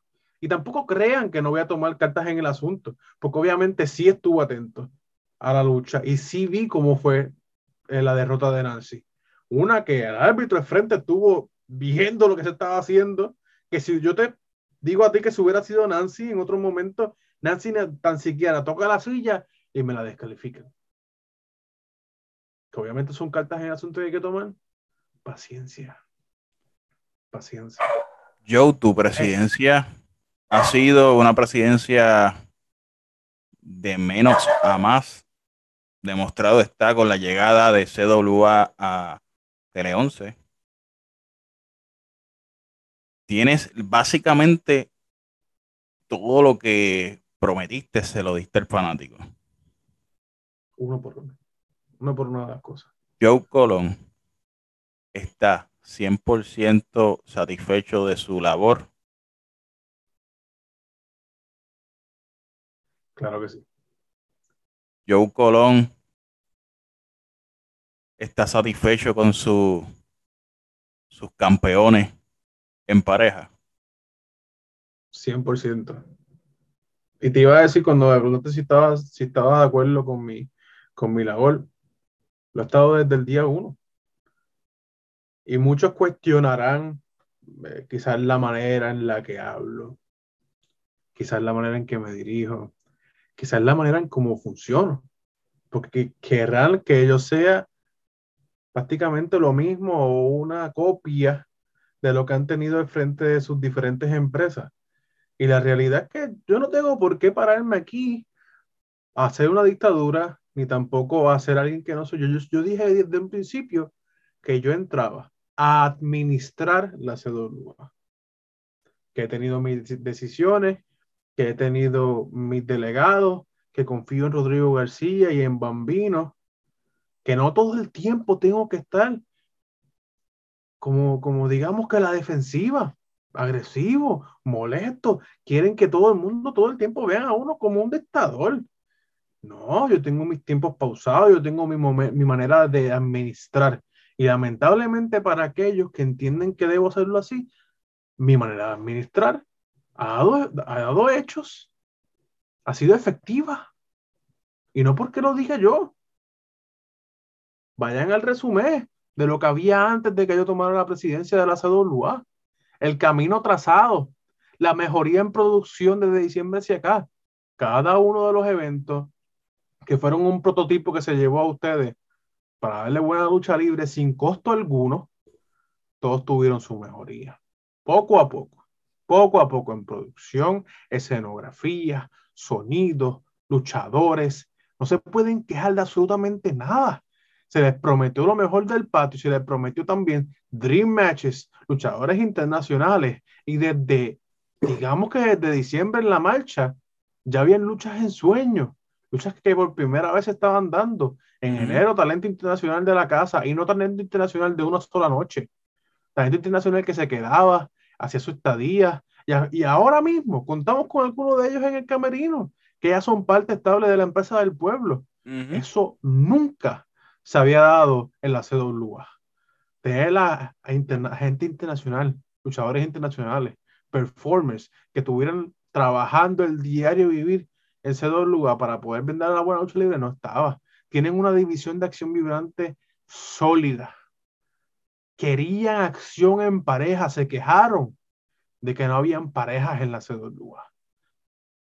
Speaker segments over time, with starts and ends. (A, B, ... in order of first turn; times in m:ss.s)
0:00.4-0:07.3 A
0:07.9-0:20.7 A
0:22.7-0:24.6 A
0:25.2-0:26.0 A
0:27.3-0:27.8 A
0:28.4-0:29.8 B
0:30.5-0:32.3 B
0:33.6-0:35.2 B
0:36.0-0:39.2 B
0:39.7-0:40.3 B
0:43.3-0:44.9 B
0:46.1-0:49.2 B
0:50.8-0:51.4 A
0:52.0-0:52.9 A
0:53.2-0:53.9 B
0:55.1-0:58.9 B
1:03.2-1:03.6 A
1:05.1-1:05.9 B
1:08.2-1:09.8 B
1:11.1-1:12.1 B
1:12.9-1:13.5 B
1:15.1-1:16.0 A
1:17.2-1:21.7 A
1:22.5-1:23.8 A
1:25.5-1:30.0 A
1:31.1-1:32.7 A
1:33.4-1:35.1 A
1:35.7-1:37.7 A
1:38.7-1:41.4 A
1:42.0-1:44.7 A
1:45.4-1:48.2 A
1:49.2-1:53.9 A
1:54.4-1:57.9 A
1:59.1-2:00.8 A
2:01.4-2:06.3 A
2:07.2-2:09.2 A
2:10.8-2:18.6 A
2:19.4-2:27.5 A
2:28.2-2:29.4 A
2:30.0-2:31.7 A
2:32.6-2:33.7 A
2:34.7-2:35.9 A
2:37.8-2:42.2 A
2:42.8-2:47.1 A
2:47.6-2:49.1 A
2:49.8-2:52.0 A
2:52.6-2:55.1 A
2:56.0-3:16.7 A
3:17.3-3:25.5 A
3:21.5-3:21.8 B
3:26.2-3:39.1 A
3:35.3-3:35.6 B
3:39.8-3:53.9 A
3:55.2-3:58.0 A
3:58.6-4:00.7 A